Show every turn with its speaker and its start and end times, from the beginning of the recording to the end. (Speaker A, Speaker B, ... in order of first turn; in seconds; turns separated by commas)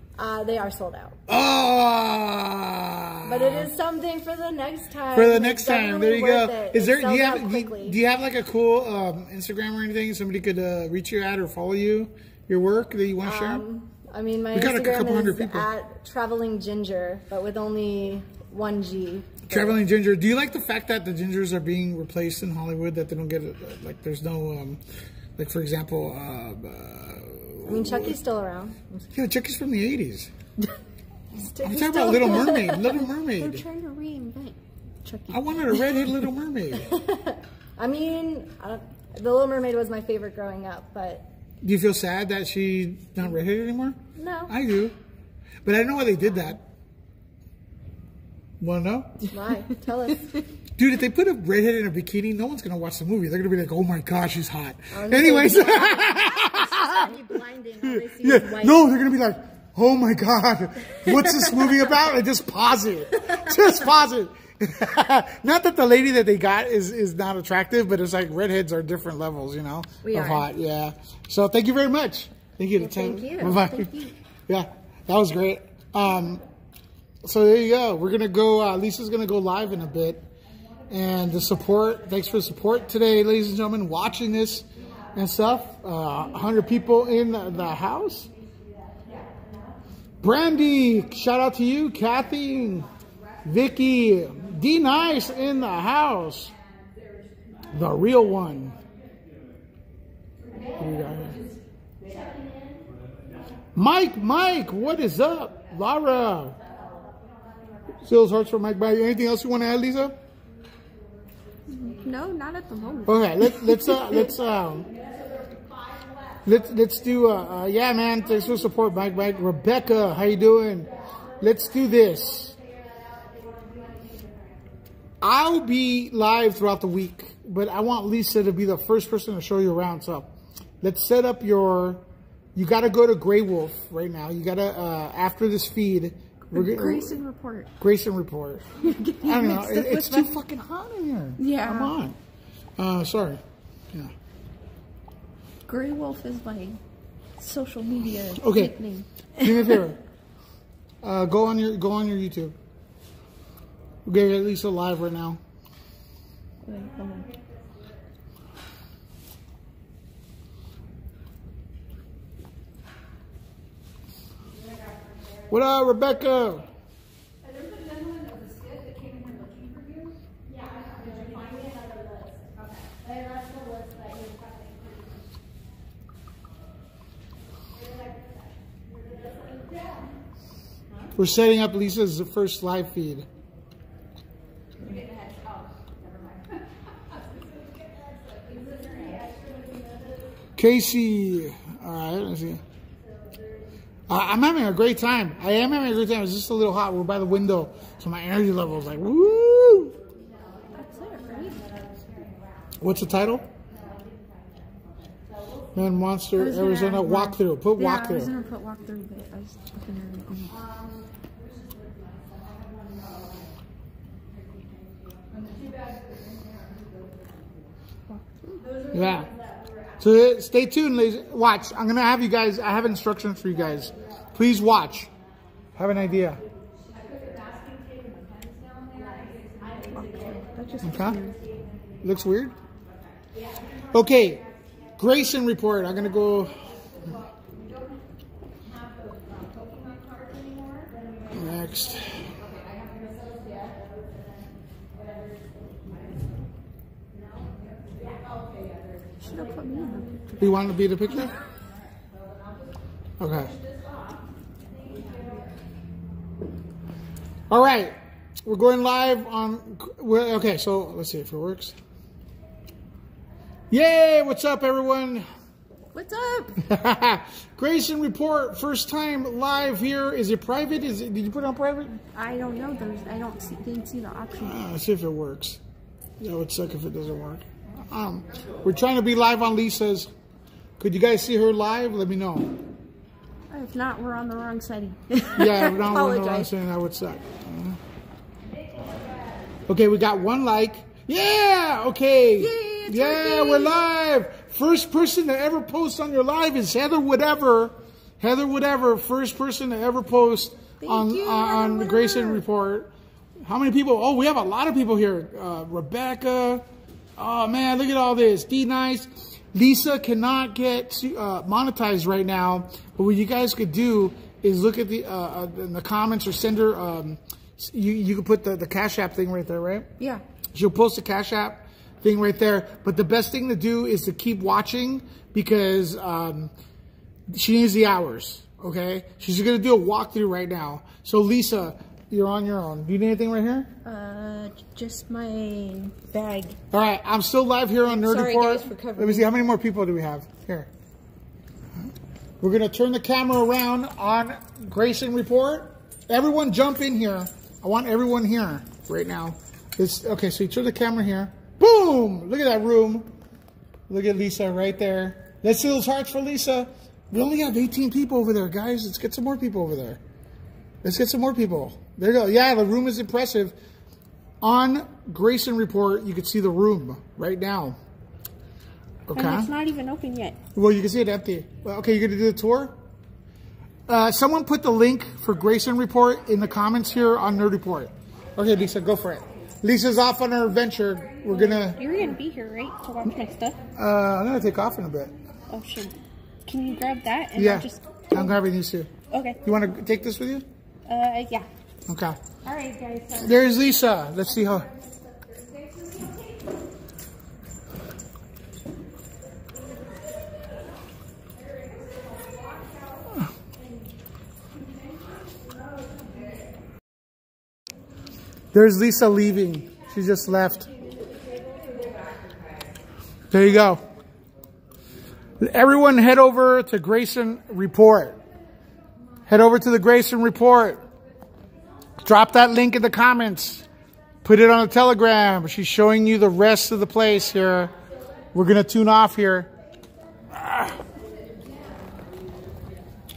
Speaker A: 0.2-1.2, Speaker B: 1.3-3.7, Speaker A: 3.2-8.0, Speaker B: 5.1-13.7, Speaker A: 13.2-19.8, Speaker B: 14.5-15.7, Speaker B: 19.5-24.8, Speaker B: 25.4-28.2, Speaker A: 27.6-29.0, Speaker B: 29.1-30.3, Speaker A: 31.3-32.6, Speaker B: 31.6-33.6, Speaker C: 31.9-36.1, Speaker B: 35.3-37.0, Speaker A: 36.7-41.3, Speaker B: 41.6-44.9, Speaker A: 44.1-44.5, Speaker B: 45.6-46.6, Speaker B: 48.6-49.3, Speaker A: 49.3-50.4, Speaker B: 50.8-57.1, Speaker A: 54.9-58.8, Speaker B: 57.8-73.9, Speaker A: 70.0-70.5, Speaker A: 72.8-73.6, Speaker C: 73.2-74.1, Speaker B: 74.5-76.4, Speaker B: 77.2-80.2, Speaker B: 80.9-88.3, Speaker B: 90.2-92.9, Speaker B: 93.4-96.5, Speaker B: 97.7-98.8, Speaker B: 100.8-101.4, Speaker B: 103.7-106.6, Speaker B: 108.0-110.2, Speaker C: 111.7-114.2, Speaker B: 113.0-114.9, Speaker B: 116.4-122.5, Speaker B: 125.2-132.0, Speaker B: 132.5-137.2, Speaker C: 136.5-137.7, Speaker B: 137.8-138.7, Speaker C: 138.8-140.3, Speaker B: 139.2-142.2, Speaker C: 141.4-141.9, Speaker B: 142.8-143.4, Speaker C: 145.7-146.8, Speaker C: 147.4-149.8, Speaker B: 148.3-148.7, Speaker B: 149.4-150.0, Speaker B: 151.0-152.5, Speaker B: 154.1-155.4, Speaker C: 156.6-157.3, Speaker B: 165.5-166.6, Speaker B: 181.2-183.2, Speaker B: 190.6-192.6, Speaker B: 194.1-200.0, Speaker C: 200.7-201.6, Speaker B: 202.8-203.5, Speaker B: 205.7-208.3, Speaker C: 206.4-210.6, Speaker C: 218.1-218.7, Speaker B: 218.9-219.3, Speaker B: 220.0-225.1, Speaker B: 225.8-226.4, Speaker C: 229.8-231.4, Speaker B: 230.8-231.2, Speaker B: 232.0-232.5, Speaker B: 233.9-234.4, Speaker B: 235.0-236.5, Speaker B: 241.3-242.2, Speaker C: 249.2-250.4, Speaker B: 250.4-251.3, Speaker B: 253.2-253.5, Speaker B: 257.5-261.7, Speaker B: 263.7-265.3, Speaker C: 265.9-266.6, Speaker B: 266.6-272.0, Speaker C: 272.0-274.6, Speaker B: 274.4-275.6, Speaker B: 276.2-280.1, Speaker B: 280.8-282.5, Speaker C: 283.5-286.5, Speaker B: 285.4-287.8, Speaker B: 289.7-302.9, Speaker C: 292.4-293.8, Speaker C: 300.8-302.4, Speaker B: 303.4-306.6, Speaker B: 307.2-319.9, Speaker B: 320.5-326.5, Speaker B: 327.3-333.7, Speaker C: 333.8-336.6, Speaker B: 336.7-340.7, Speaker A: 337.9-339.3, Speaker B: 342.4-353.1, Speaker B: 353.9-360.0, Speaker B: 360.8-363.5, Speaker B: 364.4-367.8, Speaker B: 369.1-369.5, Speaker C: 369.1-370.4, Speaker B: 370.5-372.7, Speaker B: 373.9-381.8, Speaker C: 381.3-383.6, Speaker B: 383.7-385.1, Speaker C: 385.5-388.4, Speaker B: 387.3-390.4, Speaker C: 389.1-389.4, Speaker C: 390.9-391.5, Speaker B: 391.9-392.2, Speaker C: 392.4-393.4, Speaker B: 393.2-394.7, Speaker B: 408.5-410.7, Speaker B: 413.3-413.8, Speaker B: 415.4-418.2, Speaker B: 419.3-420.8, Speaker B: 422.0-423.6, Speaker B: 424.2-427.7, Speaker B: 428.3-429.5, Speaker B: 430.3-430.8